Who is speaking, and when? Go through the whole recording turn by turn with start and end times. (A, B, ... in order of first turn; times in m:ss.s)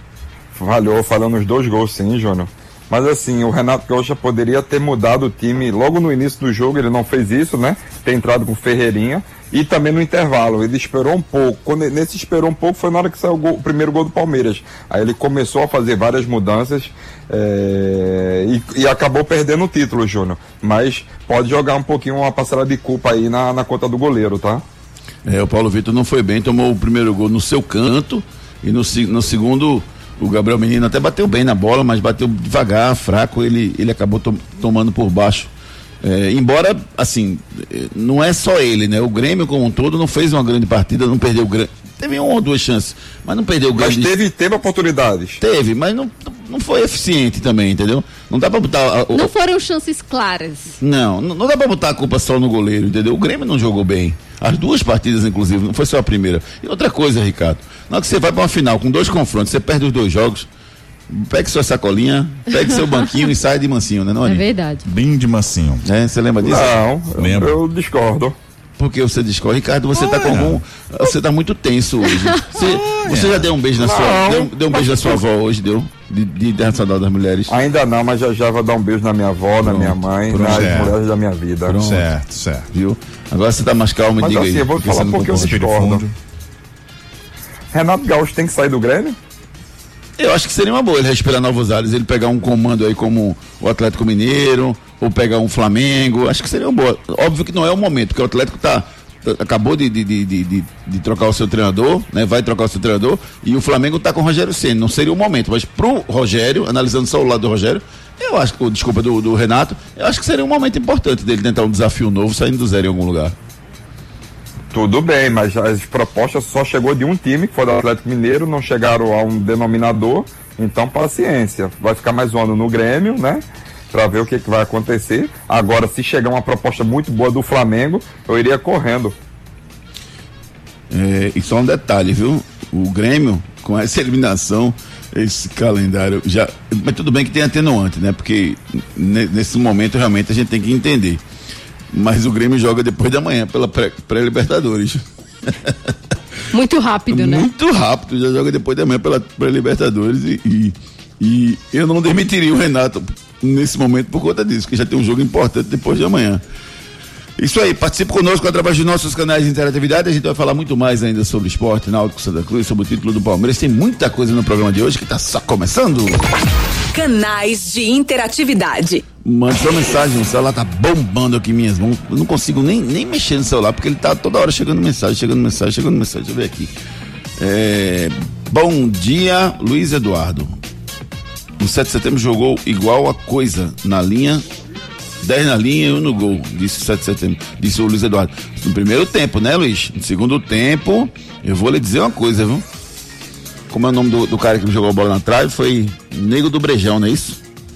0:00.5-0:24.6 A
0:25.2-0:35.5 B
0:36.0-0:44.1 B
0:43.8-0:45.4 A
0:45.4-0:49.3 B
0:49.1-0:50.8 C
0:50.8-1:00.5 B
1:01.1-1:04.4 B
1:04.2-1:04.8 C
1:04.8-1:05.8 D
1:05.8-1:06.8 B
1:06.4-1:08.3 A
1:07.2-1:07.6 D
1:08.8-1:17.5 B
1:10.0-1:10.3 C
1:10.3-1:10.6 D
1:13.0-1:13.4 D
1:13.8-1:15.2 A
1:17.5-1:21.8 A
1:19.6-1:20.9 B
1:20.4-1:20.9 D
1:21.7-1:22.1 B
1:21.8-1:22.7 D
1:22.7-1:25.6 B
1:24.2-1:26.0 A
1:24.9-1:26.1 D
1:27.7-1:29.2 A
1:30.2-1:53.3 B
1:54.7-2:09.1 A
2:10.9-2:21.2 B
2:21.9-2:25.9 B
2:26.5-2:27.5 C
2:27.1-2:36.4 B
2:37.4-2:46.2 B
2:46.9-2:49.0 E
2:49.2-2:56.7 B
2:57.4-3:00.5 B
3:01.6-3:04.4 B
3:05.2-3:12.6 B
3:13.7-3:17.4 B